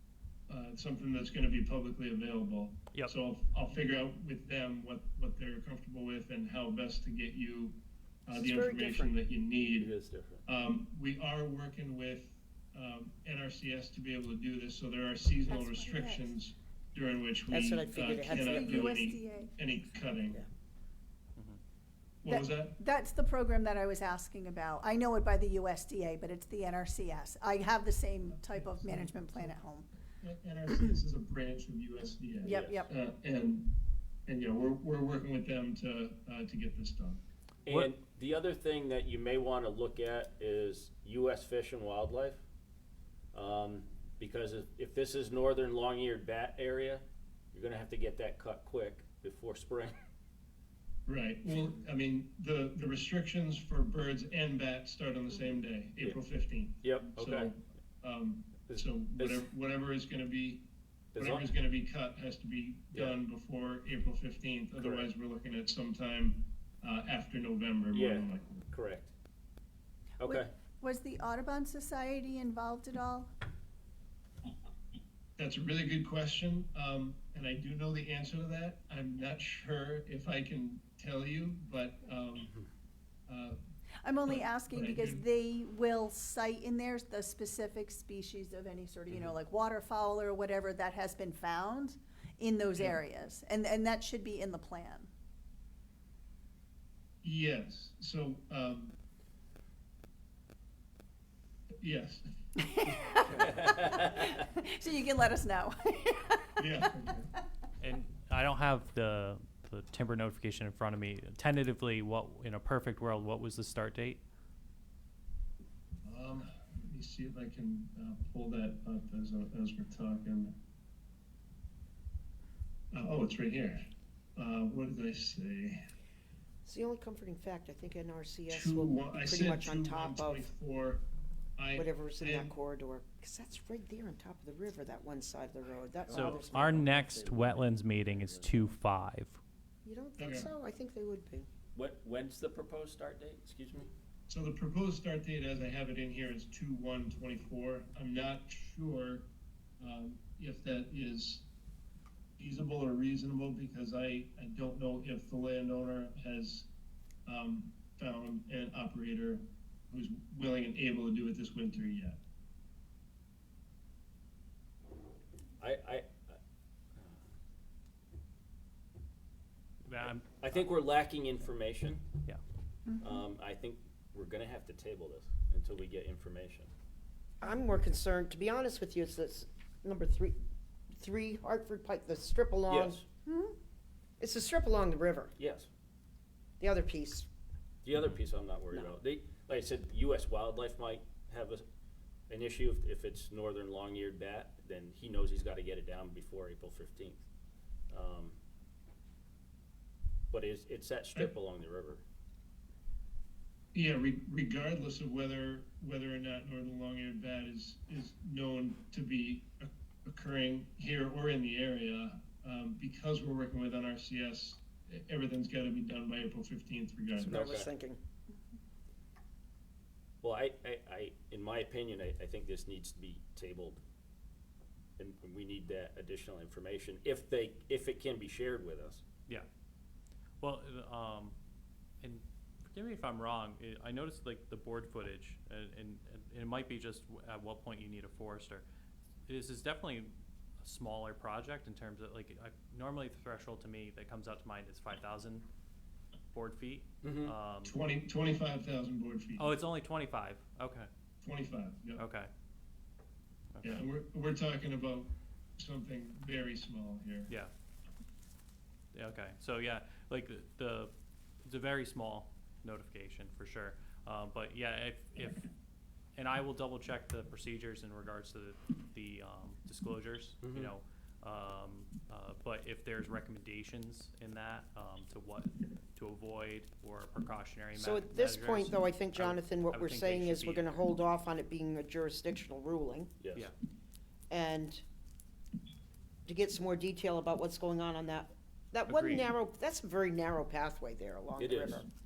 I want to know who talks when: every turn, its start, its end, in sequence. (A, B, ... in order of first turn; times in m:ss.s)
0:00.5-0:09.9 A
0:08.3-0:09.1 B
0:09.7-0:10.4 C
0:10.4-0:20.4 A
0:15.5-0:16.3 D
0:17.5-0:18.9 B
0:18.3-0:19.7 D
0:22.2-0:22.8 A
0:22.3-0:29.9 D
0:28.3-0:29.6 A
0:30.2-0:33.7 A
0:32.4-0:32.9 D
0:32.5-0:32.8 C
0:34.3-0:37.2 A
0:37.6-0:42.4 C
0:43.3-0:49.9 C
0:51.0-1:00.6 A
0:56.8-0:57.5 C
0:58.6-0:59.5 C
1:01.1-1:01.4 C
1:01.2-1:08.7 A
1:02.9-1:03.2 C
1:04.8-1:05.1 C
1:07.9-1:09.1 C
1:10.2-1:10.5 C
1:10.2-1:13.3 D
1:15.4-1:22.5 A
1:23.3-1:23.6 A
1:24.0-1:35.1 D
1:24.2-1:25.2 A
1:37.2-1:38.9 A
1:41.8-1:42.2 A
1:42.6-1:47.4 D
1:43.4-1:44.3 C
1:46.6-1:47.3 A
1:47.8-1:54.2 E
1:56.0-2:00.5 A
2:02.9-2:05.8 A
2:06.6-2:10.5 B
2:08.5-2:11.0 A
2:11.6-2:12.5 A
2:11.7-2:16.9 B
2:16.1-2:18.7 C
2:16.1-2:19.4 E
2:19.8-2:21.5 B
2:20.2-2:20.5 A
2:21.7-2:23.9 C
2:24.3-2:29.3 A
2:29.8-2:31.4 A
2:32.4-2:36.7 A
2:37.2-2:42.2 A
2:45.6-2:46.4 C
2:49.8-2:50.6 E
2:50.4-2:52.0 C
2:52.9-2:53.2 D
2:53.0-2:56.7 C
2:57.4-3:00.4 B
3:00.9-3:03.0 B
3:02.7-3:03.0 C
3:03.2-3:03.6 D
3:04.2-3:05.3 B
3:05.4-3:05.7 C
3:06.6-3:07.3 B
3:07.8-3:11.6 C
3:12.3-3:17.2 C
3:17.9-3:18.4 C
3:20.3-3:22.0 C
3:23.7-3:37.5 A
3:37.2-3:38.0 B
3:37.3-3:37.7 C
3:40.2-3:43.8 C
3:45.0-3:49.0 C
3:50.4-3:51.3 E
3:52.0-3:58.6 E
3:59.3-4:05.4 E
4:06.3-4:07.7 E
4:07.0-4:07.3 C
4:07.6-4:09.5 A
4:09.4-4:10.9 E
4:11.2-4:12.0 A
4:12.0-4:12.3 E
4:13.5-4:13.8 E
4:13.6-4:17.3 A
4:18.9-4:20.9 E
4:21.4-4:25.5 E
4:26.1-4:40.7 E
4:30.4-4:30.7 C
4:37.7-4:43.1 B
4:43.2-4:43.5 C
4:44.3-4:44.8 B
4:46.2-4:51.9 B
4:48.9-4:49.3 E
4:51.4-4:51.8 C